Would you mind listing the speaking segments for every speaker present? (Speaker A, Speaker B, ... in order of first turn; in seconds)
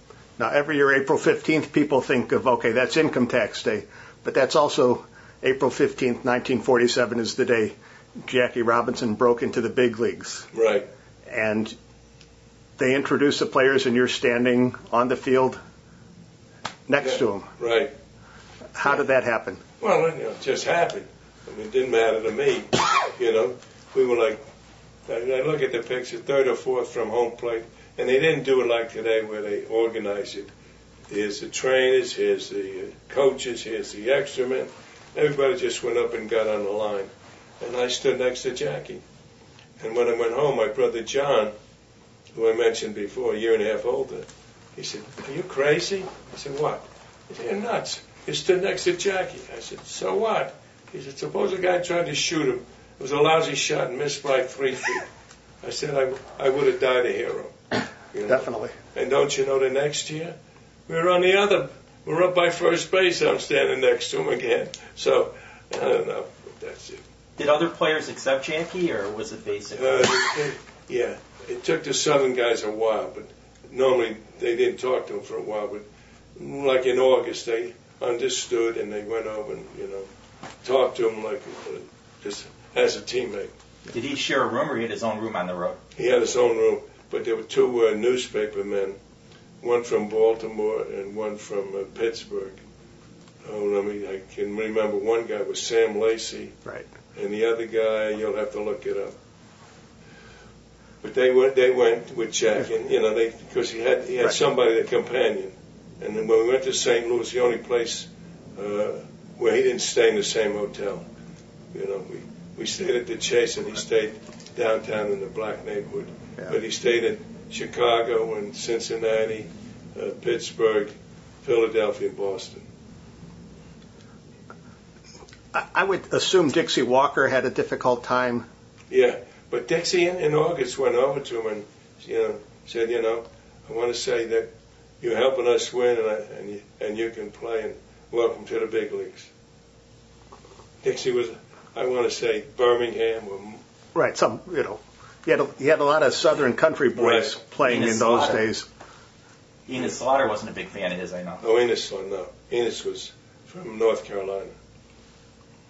Speaker A: 0.4-10.5, 11.2-11.7, 12.8-15.6, 16.9-17.5, 18.8-19.6, 58.3-58.7, 125.5-128.4, 143.9-148.7
Speaker B: 10.5-10.9, 17.0-17.9, 19.8-24.4, 25.1-30.5, 31.1-39.0, 39.8-41.5, 42.3-55.1, 55.6-57.5, 58.1-60.4, 60.9-67.0, 69.7-80.1, 80.6-83.5, 86.0-89.0, 89.6-92.6, 93.4-96.5, 97.1-99.1, 101.0-111.1, 111.7-120.9, 121.4-122.7, 128.9-134.5, 135.0-139.3, 140.8-143.6, 146.9-147.4, 151.4-154.5
Speaker C: 67.4-70.2, 83.9-85.8, 147.6-148.4, 149.7-151.4